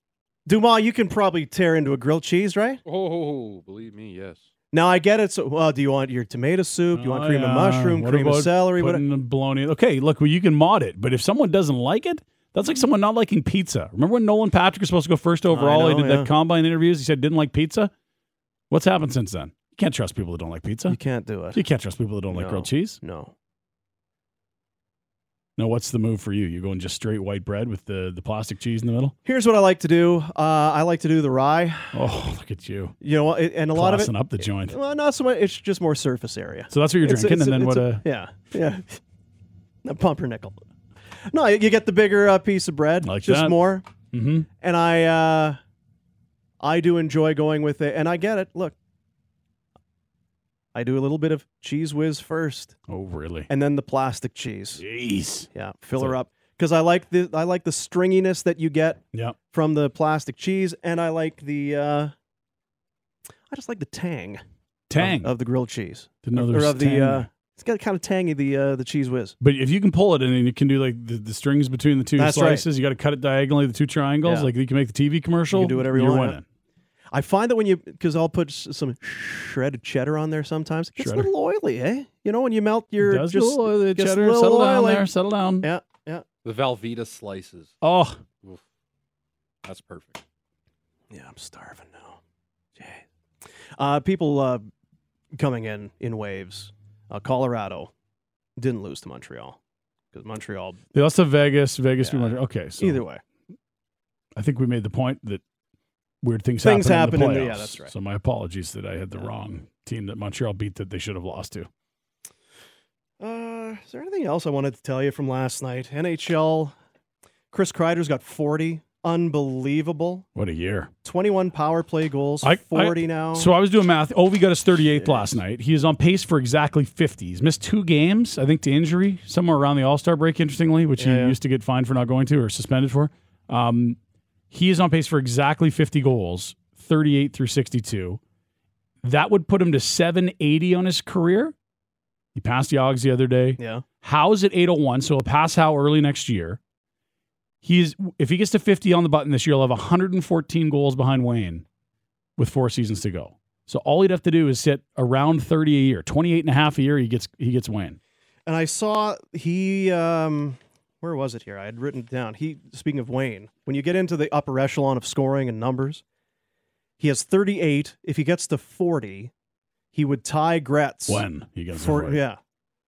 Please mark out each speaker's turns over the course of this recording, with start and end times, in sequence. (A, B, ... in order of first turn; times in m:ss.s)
0:00.5-0:02.8 A
0:02.9-0:04.5 B
0:04.7-0:09.0 A
0:06.9-0:17.9 C
0:15.5-0:16.3 A
0:18.7-0:21.0 C
0:20.9-0:21.6 A
0:21.5-0:23.0 C
0:22.3-0:23.3 A
0:25.6-0:29.2 C
0:29.2-0:32.0 A
0:31.9-0:33.0 C
0:33.0-0:39.0 A
0:33.7-0:34.8 C
0:36.7-0:38.0 C
0:39.8-0:40.6 A
0:41.3-0:43.9 A
0:43.0-0:43.6 C
0:44.1-0:44.5 C
0:44.6-0:45.6 A
0:46.6-0:48.8 A
0:50.7-0:52.8 A
0:52.9-0:53.5 C
0:53.5-0:54.8 A
0:54.8-0:56.2 C
0:55.5-1:02.1 A
1:03.5-1:04.4 A
1:04.9-1:05.3 C
1:05.0-1:09.4 A
1:06.2-1:07.3 C
1:09.4-1:16.4 C
1:12.2-1:12.7 A
1:14.2-1:14.5 A
1:15.5-1:16.4 A
1:17.1-1:25.1 A
1:21.0-1:21.3 C
1:23.0-1:25.7 C
1:25.6-1:26.2 A
1:26.4-1:27.8 B
1:27.8-1:28.2 C
1:29.6-1:30.2 B
1:31.1-1:32.2 A
1:32.8-1:34.7 A
1:35.4-1:37.9 A
1:38.6-1:39.6 A
1:40.1-1:40.8 A
1:40.9-1:43.0 C
1:42.0-1:43.2 A
1:44.4-1:45.4 C
1:46.2-1:51.7 C
1:46.6-1:47.9 A
1:53.2-1:56.8 A
1:57.5-2:00.3 A
2:00.4-2:00.9 C
2:01.0-2:03.5 A
2:02.4-2:14.0 C
2:05.0-2:05.3 A
2:11.0-2:11.4 A
2:14.5-2:18.2 C
2:19.0-2:21.5 C
2:22.4-2:26.6 C
2:23.6-2:23.8 A
2:27.6-2:31.6 C
2:32.4-2:38.0 C
2:38.5-2:46.0 A
2:47.0-2:49.3 A
2:49.9-2:52.4 A
2:51.1-2:52.2 C